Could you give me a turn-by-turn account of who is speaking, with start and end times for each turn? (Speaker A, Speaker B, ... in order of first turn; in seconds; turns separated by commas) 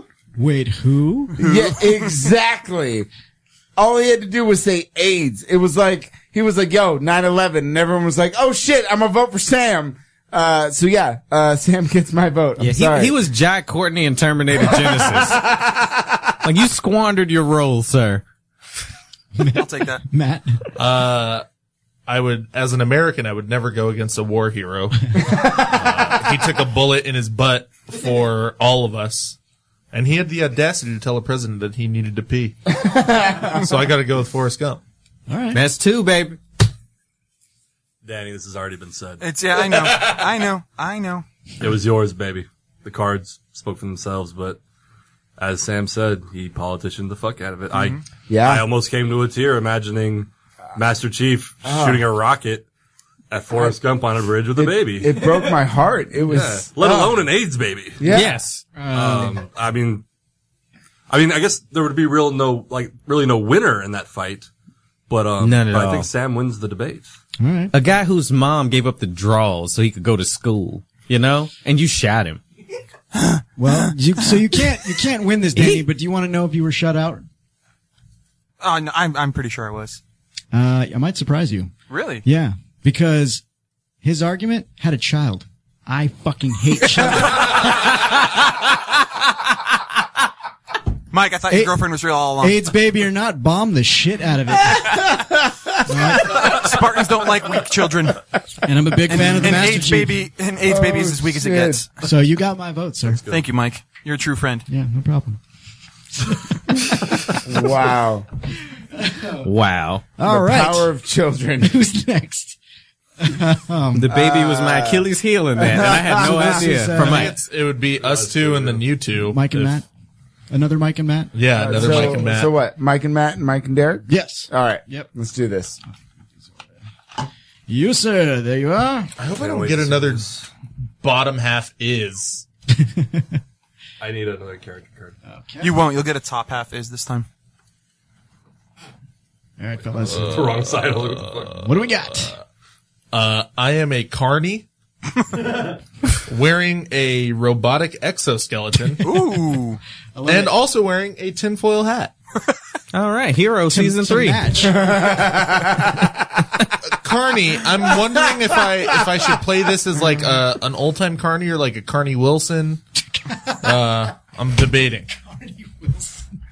Speaker A: 0.4-1.3, Speaker B: 1.4-2.2, Speaker C: 1.4-3.1, Speaker C: 3.8-13.2, Speaker D: 12.6-15.5, Speaker C: 14.6-15.9, Speaker D: 16.4-18.2, Speaker A: 19.4-20.7, Speaker B: 19.5-20.0, Speaker E: 20.8-21.4, Speaker E: 22.1-29.4, Speaker E: 29.9-32.6, Speaker C: 32.8-33.6, Speaker E: 33.5-34.8, Speaker A: 35.3-35.6, Speaker D: 35.5-36.4, Speaker F: 38.0-40.2, Speaker B: 39.2-41.3, Speaker F: 41.6-44.6, Speaker F: 45.4-52.7, Speaker B: 47.7-48.0, Speaker C: 48.3-48.7, Speaker C: 51.6-52.0, Speaker F: 53.3-55.3, Speaker C: 54.6-57.3, Speaker F: 56.3-58.0, Speaker C: 58.0-58.4, Speaker D: 58.1-58.7, Speaker A: 58.8-59.4, Speaker F: 58.9-60.0, Speaker F: 61.1-64.5, Speaker F: 65.1-67.1, Speaker D: 65.4-66.1, Speaker A: 67.4-67.7, Speaker D: 67.7-72.4, Speaker A: 73.6-77.2, Speaker D: 75.6-75.8, Speaker B: 78.6-80.0, Speaker A: 80.5-81.7, Speaker B: 81.9-82.2, Speaker A: 82.2-83.4, Speaker A: 84.0-87.6, Speaker B: 91.1-92.6, Speaker A: 91.5-91.8, Speaker A: 92.4-95.0, Speaker C: 94.9-95.4, Speaker A: 95.9-96.5, Speaker B: 96.2-98.2, Speaker A: 98.7-100.3, Speaker B: 99.1-101.9, Speaker C: 100.6-101.8, Speaker A: 102.0-103.2, Speaker F: 103.2-103.5, Speaker B: 103.3-104.7, Speaker A: 104.7-105.4, Speaker C: 107.4-108.3, Speaker A: 109.0-109.5, Speaker D: 109.4-110.0, Speaker A: 110.2-110.9, Speaker C: 110.2-111.8, Speaker A: 111.6-112.6, Speaker A: 113.2-114.1, Speaker D: 114.0-117.4, Speaker C: 114.1-116.7, Speaker A: 116.1-117.4, Speaker E: 117.0-119.8, Speaker F: 117.9-118.9, Speaker A: 119.3-119.8, Speaker A: 120.5-122.2, Speaker E: 121.3-122.5, Speaker C: 121.6-125.8, Speaker A: 124.1-125.1, Speaker A: 127.7-129.1, Speaker E: 129.2-130.3, Speaker F: 129.2-130.5, Speaker E: 131.0-132.5, Speaker A: 132.7-133.4, Speaker F: 134.0-135.1, Speaker A: 135.3-135.8, Speaker B: 135.6-137.3, Speaker A: 139.6-140.6, Speaker F: 140.1-141.5, Speaker E: 140.1-141.8, Speaker A: 141.6-142.3, Speaker E: 143.1-144.7, Speaker E: 146.3-149.1, Speaker B: 149.0-149.8, Speaker A: 150.2-150.5, Speaker E: 150.3-152.1, Speaker D: 152.9-154.5, Speaker A: 153.7-155.0, Speaker C: 154.6-156.2, Speaker E: 156.9-162.8, Speaker E: 163.6-165.2, Speaker A: 165.2-166.2